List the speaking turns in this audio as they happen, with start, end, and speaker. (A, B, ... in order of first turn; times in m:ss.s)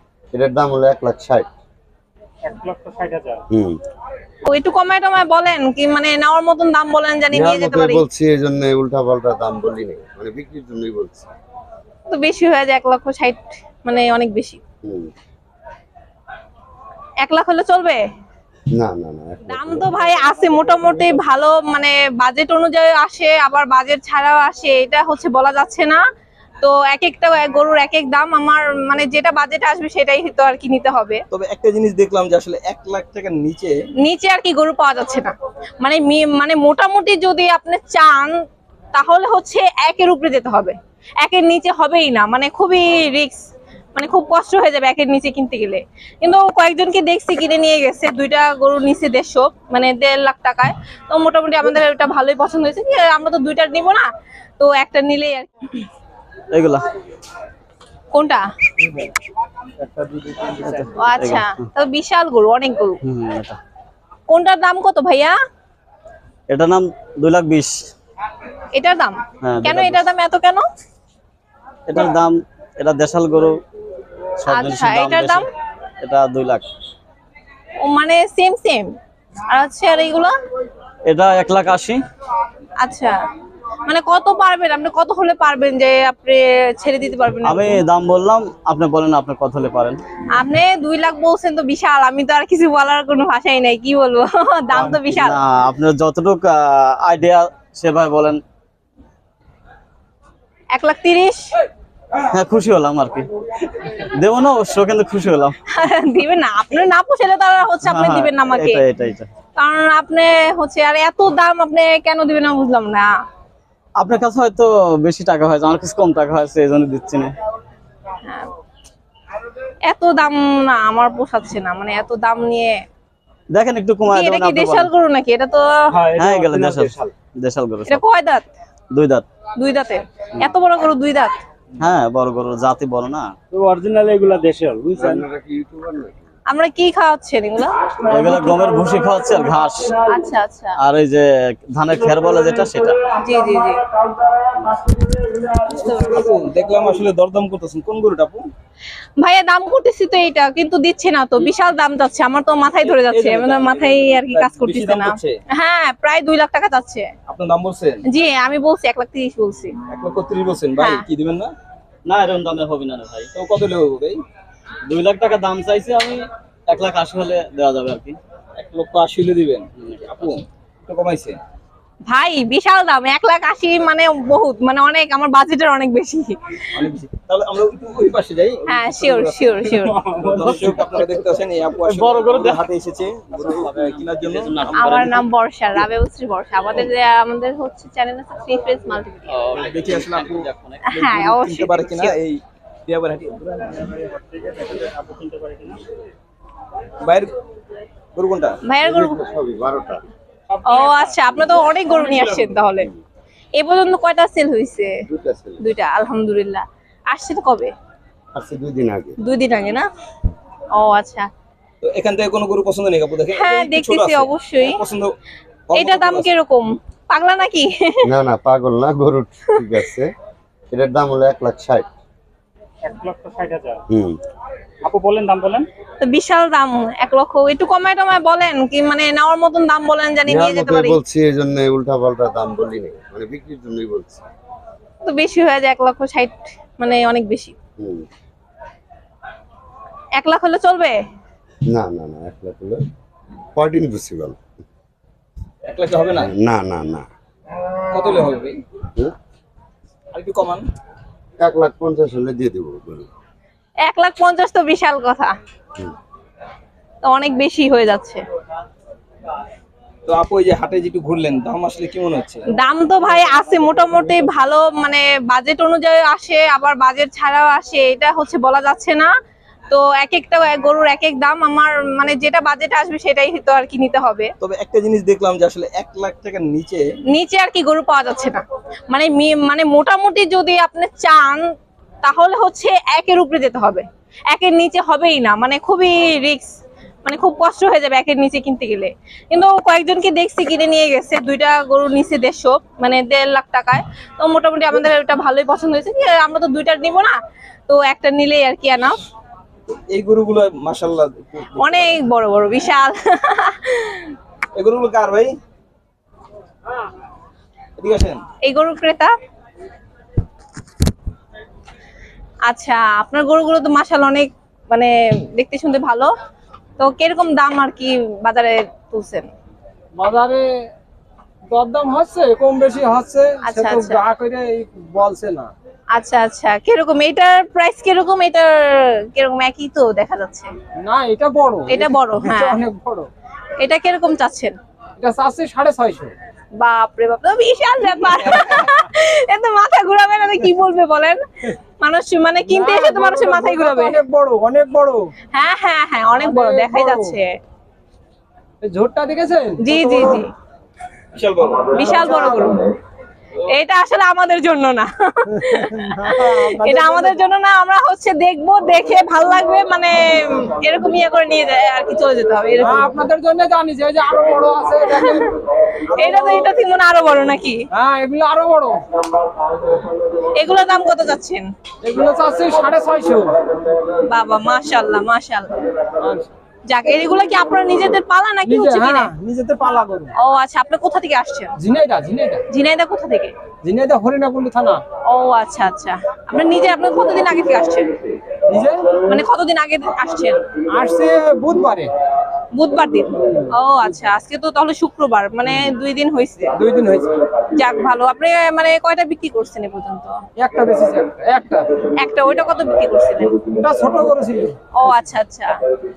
0:00.3-0:01.4 A
0:02.4-0:03.4 B
0:03.5-0:03.8 A
0:04.4-0:08.0 C
0:07.3-0:11.3 A
0:12.1-0:14.6 C
0:14.8-0:15.1 A
0:17.2-0:18.0 C
0:18.8-0:20.0 A
0:19.5-0:26.0 C
0:26.6-0:31.2 C
0:31.3-0:33.7 D
0:34.0-0:38.4 C
0:38.9-0:43.4 C
0:43.9-0:54.1 C
0:54.6-0:55.9 C
0:56.5-0:56.8 E
0:58.1-0:58.4 C
0:58.8-0:59.1 F
0:59.8-1:00.9 B
1:00.5-1:01.6 E
1:00.9-1:03.0 C
1:03.0-1:03.6 E
1:04.3-1:05.4 C
1:06.5-1:07.9 E
1:08.7-1:10.6 C
1:09.4-1:10.0 E
1:11.9-1:13.6 E
1:14.4-1:15.4 E
1:14.5-1:15.5 C
1:16.0-1:16.6 E
1:17.8-1:18.9 C
1:19.5-1:20.3 C
1:21.0-1:22.0 E
1:22.8-1:23.2 C
1:23.8-1:27.8 C
1:27.4-1:30.0 E
1:30.3-1:35.4 C
1:35.1-1:38.4 E
1:40.7-1:41.5 C
1:42.3-1:43.3 E
1:43.9-1:45.6 E
1:45.7-1:48.8 C
1:47.8-1:49.3 E
1:49.6-1:53.1 C
1:54.0-1:57.3 E
1:58.2-1:58.5 C
1:59.8-2:02.8 C
2:03.5-2:04.9 E
2:04.1-2:05.7 C
2:06.0-2:07.0 B
2:06.0-2:08.0 E
2:07.9-2:08.5 C
2:08.9-2:09.2 E
2:09.6-2:11.4 C
2:11.8-2:13.3 E
2:13.5-2:15.2 B
2:15.0-2:16.2 A
2:16.5-2:17.7 C
2:18.1-2:19.9 E
2:20.1-2:20.8 C
2:20.8-2:23.0 E
2:23.1-2:23.8 C
2:25.6-2:26.2 C
2:25.9-2:28.5 D
2:29.2-2:37.1 C
2:32.8-2:35.4 D
2:37.3-2:38.0 D
2:38.1-2:39.8 C
2:39.9-2:41.5 D
2:40.8-2:41.0 C
2:42.0-2:43.3 E
2:43.3-2:44.2 D
2:44.9-2:48.2 E
2:48.6-2:51.4 D
2:52.1-2:56.7 C
2:56.7-2:59.6 D
2:58.7-3:00.0 C
2:59.7-3:01.2 E
3:00.2-3:05.1 D
3:01.8-3:02.7 E
3:03.4-3:05.2 E
3:04.7-3:09.4 C
3:09.3-3:10.8 E
3:09.5-3:13.9 D
3:10.8-3:12.1 C
3:13.9-3:15.8 B
3:17.0-3:17.3 D
3:18.1-3:18.6 D
3:18.6-3:19.2 C
3:18.8-3:20.0 A
3:20.6-3:21.1 B
3:20.6-3:22.9 C
3:23.6-3:25.0 C
3:25.1-3:25.6 A
3:25.6-3:27.7 C
3:28.3-3:29.2 A
3:29.2-3:29.8 C
3:30.7-3:31.3 C
3:31.8-3:35.1 D
3:33.3-3:34.8 C
3:35.7-3:36.3 D
3:35.7-3:38.0 C
3:38.0-3:40.1 A
3:40.7-3:41.8 A
3:42.8-3:43.8 B
3:43.9-3:44.2 A
3:44.8-3:45.7 B
3:46.0-3:51.0 C
3:50.3-3:54.2 A
3:55.0-3:57.5 C
3:57.8-3:58.0 A
4:00.2-4:01.0 C
4:01.7-4:02.8 A
4:03.5-4:04.4 A
4:05.7-4:06.3 D
4:06.2-4:07.0 A
4:07.9-4:08.6 D
4:10.1-4:10.6 D
4:11.4-4:13.1 A
4:13.8-4:15.3 C
4:17.0-4:18.2 C
4:20.0-4:22.4 D
4:22.6-4:29.1 C
4:29.7-4:34.3 C
4:34.4-4:36.8 D
4:37.1-4:41.4 C
4:42.0-4:46.5 C
4:47.0-4:57.2 C
4:57.7-4:59.0 C
4:59.9-5:02.0 D
5:01.6-5:04.1 C
5:04.5-5:05.3 D
5:07.8-5:08.2 D
5:08.4-5:09.1 C
5:12.5-5:16.1 C
5:16.8-5:19.3 C
5:19.9-5:20.7 F
5:21.5-5:25.5 F
5:23.4-5:24.0 C
5:25.9-5:30.5 C
5:30.8-5:33.1 F
5:31.7-5:32.6 C
5:33.6-5:34.5 C
5:35.0-5:36.1 F
5:36.6-5:41.2 C
5:41.8-5:44.0 C
5:42.5-5:45.1 F
5:45.3-5:47.3 C
5:46.2-5:47.2 F
5:48.6-5:50.2 F
5:49.6-5:50.2 C
5:51.1-5:51.7 D
5:51.7-5:52.6 C
5:51.8-5:52.5 F
5:53.4-6:02.9 C
5:55.3-5:57.2 F
6:02.6-6:05.3 F
6:04.9-6:05.3 C
6:05.9-6:07.6 C
6:06.0-6:06.4 F
6:07.7-6:08.8 F
6:10.4-6:11.4 C
6:11.8-6:13.3 F
6:14.0-6:15.5 C
6:16.0-6:16.3 F
6:16.6-6:19.1 C
6:18.4-6:20.1 F
6:20.2-6:21.5 C
6:21.6-6:22.4 F
6:22.5-6:23.3 C
6:23.6-6:24.8 F
6:25.0-6:27.9 C
6:28.5-6:28.8 F
6:29.1-6:30.4 C
6:30.7-6:31.9 F
6:32.5-6:36.5 C
6:36.5-6:37.2 F
6:37.5-6:40.2 C
6:40.4-6:41.7 F
6:42.0-6:43.4 C
6:43.5-6:44.6 F
6:44.7-6:45.6 C